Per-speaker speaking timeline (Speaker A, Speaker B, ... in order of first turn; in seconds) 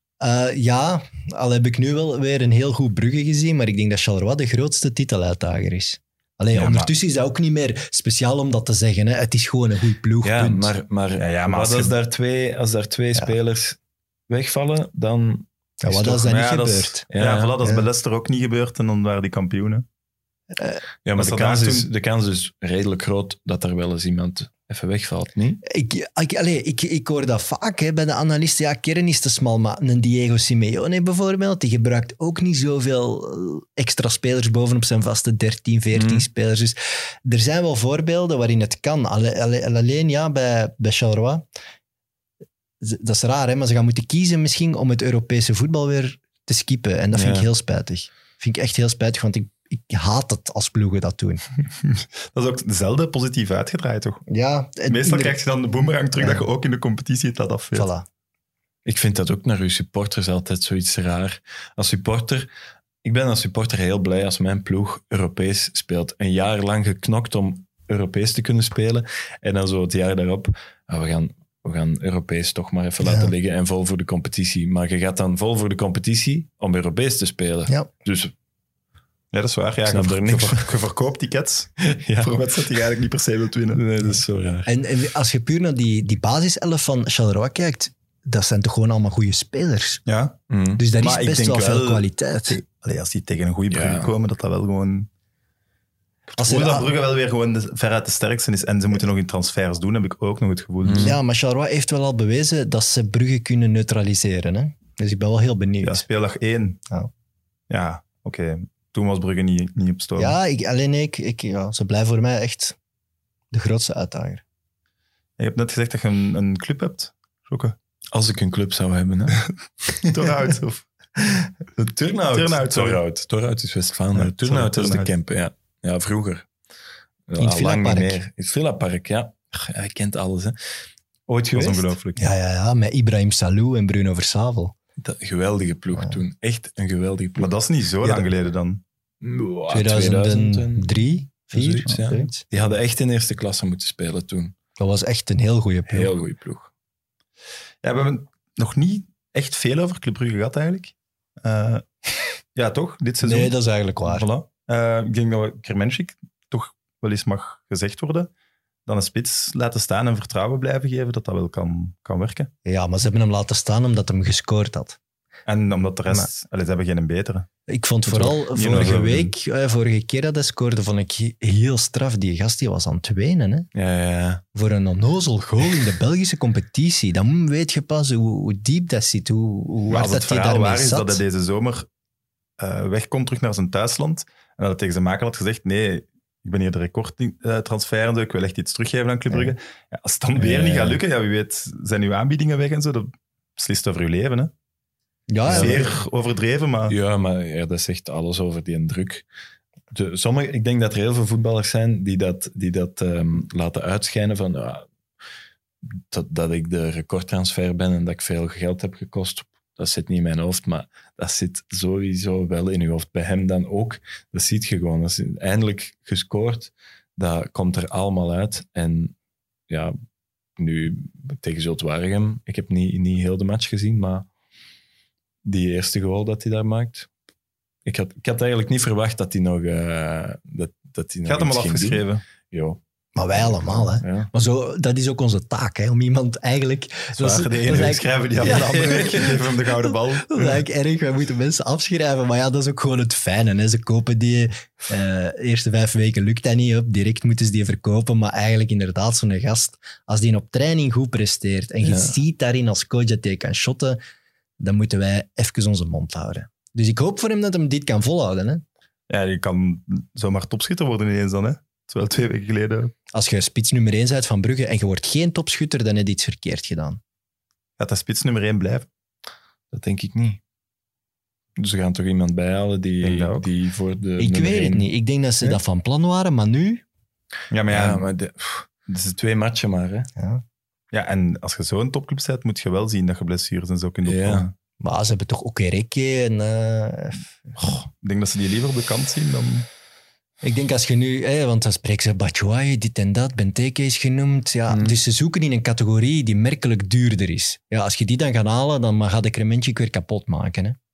Speaker A: 0.2-10.7, 15.8-17.1, 20.5-20.8, 25.6-41.5, 42.8-51.4, 54.3-55.3, 56.2-56.4, 57.7-58.0, 73.0-73.3, 84.7-90.0, 90.8-92.6, 96.4-96.9, 101.0-106.0, 110.2-112.8, 113.5-114.4, 127.4-128.2, 132.1-134.7, 139.7-142.4, 144.8-146.1, 153.2-154.3, 162.6-165.0, 167.7-173.7, 174.5-181.2, 195.3-195.9, 233.2-254.0, 254.6-258.6, 263.1-267.0, 274.2-276.8, 280.2-280.4, 284.8-287.3, 290.4-300.8
Speaker B: 6.5-6.9, 11.2-11.9, 16.0-19.8, 21.1-21.9, 52.0-54.2, 54.9-57.9, 79.3-83.8, 90.1-90.4, 91.0-95.1, 96.3-101.2, 105.8-106.8, 107.7-110.4, 115.4-117.7, 120.0-120.8, 122.3-123.0, 124.1-125.1, 131.5-132.3, 137.4-138.8, 147.8-151.8, 152.5-153.5, 154.0-158.3, 158.8-162.5, 165.4-167.5, 168.1-169.3, 179.9-181.9, 182.6-194.5, 195.5-196.9, 231.2-232.2, 237.1-240.6, 259.1-262.9, 267.8-268.9, 273.0-273.4, 277.5-278.0, 280.9-284.5, 287.6-289.7
Speaker C: 10.2-13.8, 14.3-15.5, 17.1-17.6, 21.0-25.6, 35.9-36.3, 47.1-47.5, 58.8-62.5, 63.0-78.3, 79.8-80.7, 81.8-82.8, 83.7-84.7, 90.5-90.8, 93.7-94.1, 100.8-101.2, 118.1-120.3, 121.2-126.5, 127.3-130.6, 131.3-131.9, 135.0-138.3, 139.2-140.9, 141.5-144.5, 145.9-146.7, 173.7-174.4, 190.3-191.0, 195.5-195.9, 196.9-199.2, 199.9-204.9, 206.1-219.1, 219.7-219.9, 220.6-224.3, 225.4-227.1, 227.8-232.8, 233.3-234.3, 238.4-238.9, 251.8-252.1, 269.7-270.4, 271.6-274.9, 277.7-280.1, 284.0-284.5, 294.7-295.0